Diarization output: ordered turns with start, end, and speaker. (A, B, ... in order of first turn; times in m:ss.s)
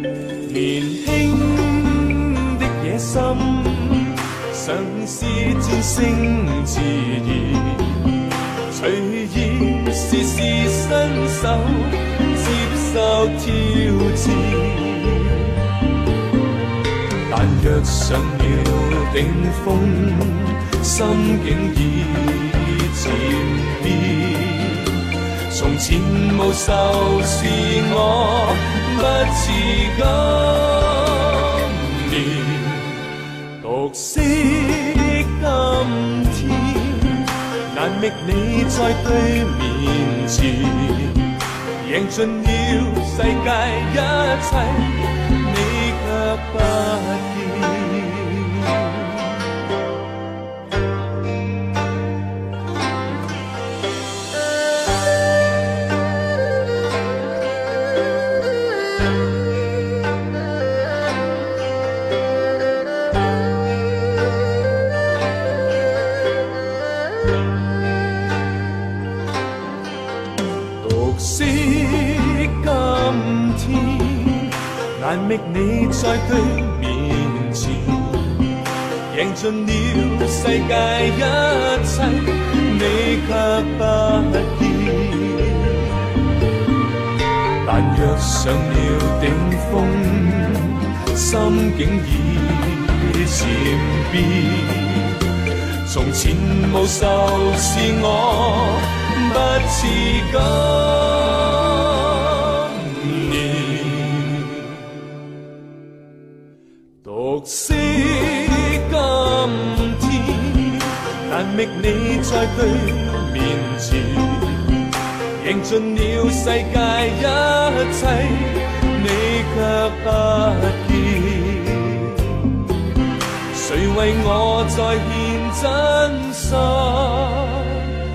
0:00.4-0:15.6 A
0:17.3-0:49.4 A
1:10.8-1:25.9 A
1:27.6-1:45.0 A
1:47.0-2:02.5 A
2:03.5-2:07.9 A